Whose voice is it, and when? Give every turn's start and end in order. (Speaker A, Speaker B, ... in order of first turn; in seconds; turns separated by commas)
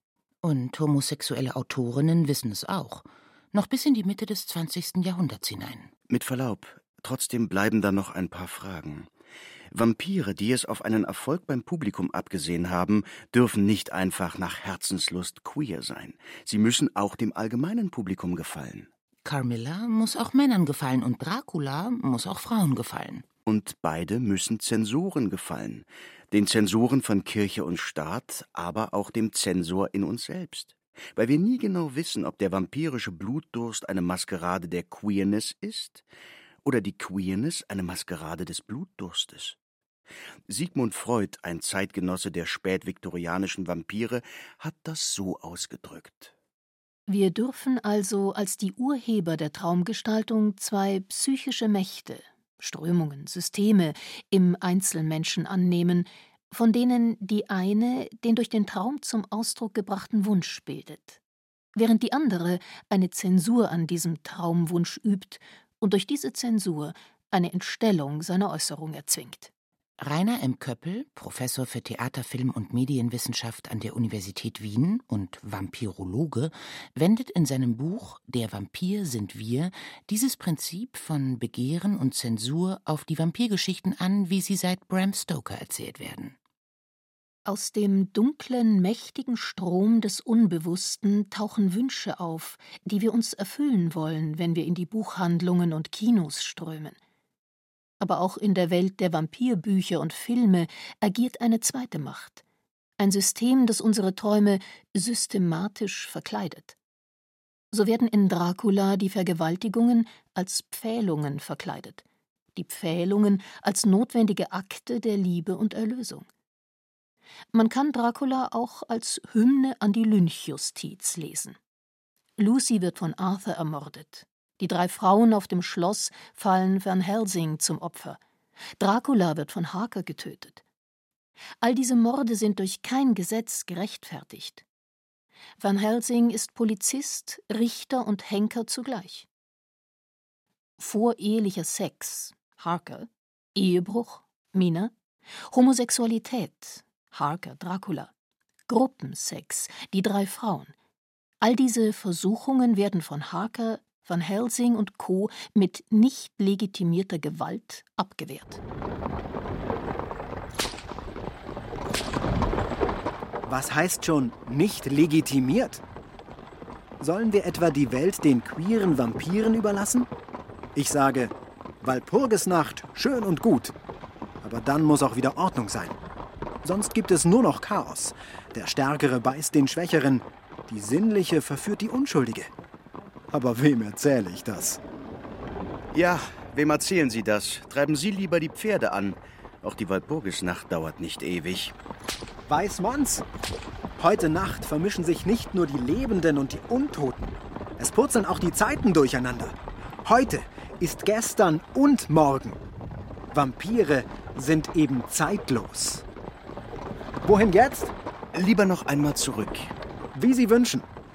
Speaker A: 0.4-5.9, Speaker B: 6.1-9.1, Speaker B: 9.7-18.9, Speaker A: 19.2-23.2, Speaker B: 23.4-36.0, Speaker B: 36.6-39.6, Speaker B: 40.5-46.3, Speaker C: 47.1-61.2, Speaker C: 61.8-69.5, Speaker A: 70.0-86.3, Speaker C: 87.5-97.0, Speaker C: 98.0-102.4, Speaker C: 103.0-106.7, Speaker C: 107.7-112.0, Speaker C: 112.5-116.3, Speaker C: 117.5-121.6, Speaker C: 122.4-128.2, Speaker C: 128.8-130.6, Speaker C: 131.6-134.6, Speaker C: 135.6-139.2, Speaker C: 140.8-144.9, Speaker C: 145.5-148.1, Speaker C: 148.7-150.7, Speaker C: 151.4-158.6, Speaker D: 163.4-165.8, Speaker D: 167.0-170.1, Speaker D: 170.7-173.7, Speaker D: 174.4-176.0, Speaker D: 176.6-182.5, Speaker D: 183.3-184.8, Speaker B: 185.9-191.7, Speaker D: 192.5-193.2, Speaker D: 193.9-202.6, Speaker D: 203.3-206.0, Speaker D: 207.2-207.9, Speaker B: 208.3-209.7, Speaker D: 210.1-210.9